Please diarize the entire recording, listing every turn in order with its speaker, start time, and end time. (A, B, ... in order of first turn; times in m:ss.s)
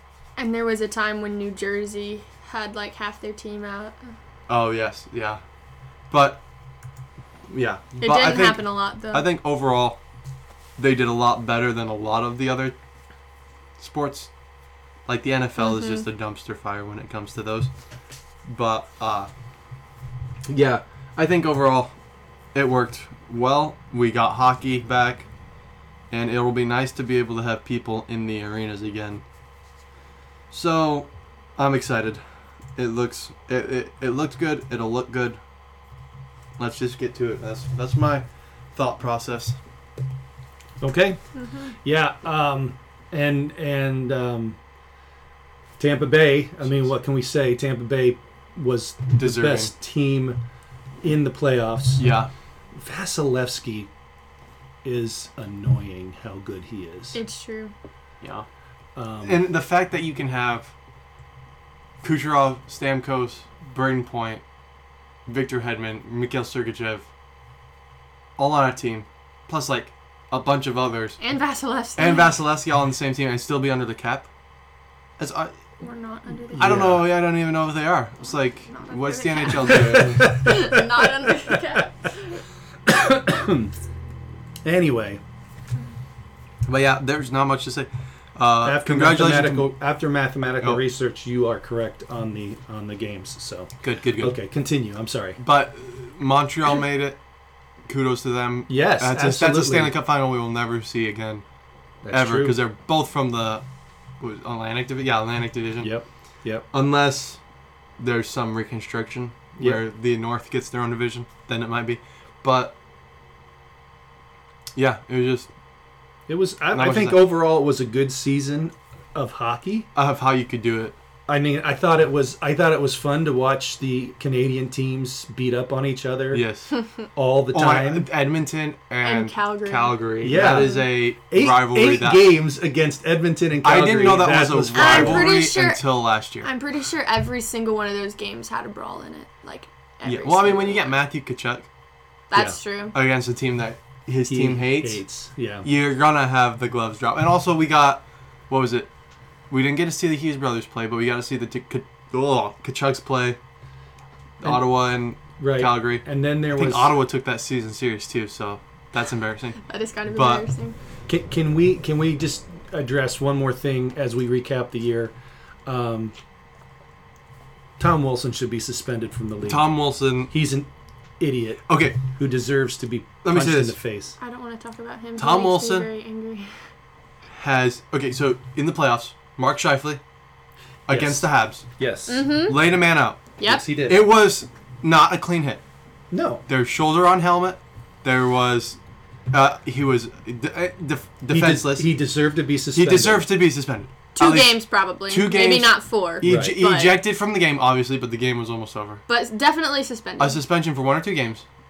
0:00.4-0:04.1 A
0:04.5-0:05.4 B
0:06.1-0:06.4 B
0:07.5-0:10.0 B
0:08.0-0:09.3 A
0:10.8-0:12.8 B
0:13.8-0:14.3 B
0:15.1-0:17.7 B
0:15.6-0:16.0 A
0:18.5-0:19.3 B
0:20.5-0:21.9 B
0:22.5-0:25.3 B
0:26.1-0:29.2 B
0:30.5-0:32.2 B
0:32.8-0:35.4 B
0:36.6-0:39.6 B
0:40.8-0:41.2 C
0:41.4-0:41.7 A
0:41.8-0:44.6 C
0:45.8-0:50.4 C
0:49.2-0:49.7 B
0:51.0-0:52.1 C
0:52.0-0:52.3 B
0:52.8-0:53.9 C
0:54.8-0:57.2 C
0:57.1-0:57.7 A
0:58.2-0:58.5 B
0:59.0-0:59.4 C
0:59.2-1:00.7 B
1:02.0-1:04.4 B
1:05.3-1:07.1 B
1:08.4-1:11.2 B
1:11.2-1:12.4 A
1:12.0-1:14.3 B
1:15.2-1:15.5 B
1:15.8-1:16.8 A
1:16.5-1:17.1 C
1:16.6-1:20.4 B
1:18.7-1:22.4 A
1:19.7-1:21.6 C
1:22.9-1:23.7 C
1:24.6-1:25.2 C
1:26.7-1:29.7 B
1:28.6-1:35.4 C
1:33.8-1:34.4 B
1:35.4-1:37.2 B
1:37.9-1:41.4 B
1:38.7-1:39.9 C
1:42.0-1:42.6 C
1:42.1-1:43.6 B
1:44.2-1:45.9 B
1:45.8-1:46.6 C
1:46.7-1:47.4 B
1:48.0-1:52.8 B
1:54.8-1:55.5 B
1:56.3-1:59.9 C
1:56.7-1:57.3 B
2:00.0-2:01.0 B
2:01.3-2:06.4 C
2:06.3-2:06.7 B
2:07.2-2:08.1 C
2:07.5-2:12.3 B
2:09.0-2:10.8 A
2:10.2-2:15.3 C
2:13.6-2:16.5 B
2:14.7-2:15.8 A
2:16.4-2:20.9 A
2:20.0-2:21.7 B
2:22.3-2:23.0 A
2:22.9-2:25.0 B
2:24.3-2:25.7 C
2:25.6-2:28.9 B
2:29.5-2:33.4 B
2:34.4-2:39.6 B
2:35.4-2:36.9 C
2:39.6-2:40.8 A
2:40.1-2:40.4 B
2:41.1-2:45.1 C
2:45.7-2:46.2 C
2:47.8-2:49.7 C
2:49.5-2:50.3 B
2:50.3-2:50.7 C
2:51.2-2:54.2 C
2:51.7-2:52.0 B
2:53.2-2:53.8 B
2:54.2-2:56.5 A
2:55.2-2:55.9 B
2:57.4-3:00.0 B
3:00.9-3:01.7 B
3:00.9-3:02.3 C
3:02.1-3:02.6 A
3:02.5-3:05.6 B
3:03.4-3:03.6 A
3:03.4-3:04.0 C
3:06.1-3:06.4 C
3:06.5-3:08.8 B
3:09.3-3:11.9 B
3:11.3-3:13.3 C
3:12.8-3:19.0 B
3:14.2-3:17.0 A
3:16.2-3:16.6 C
3:19.1-3:20.4 A
3:20.2-3:21.4 B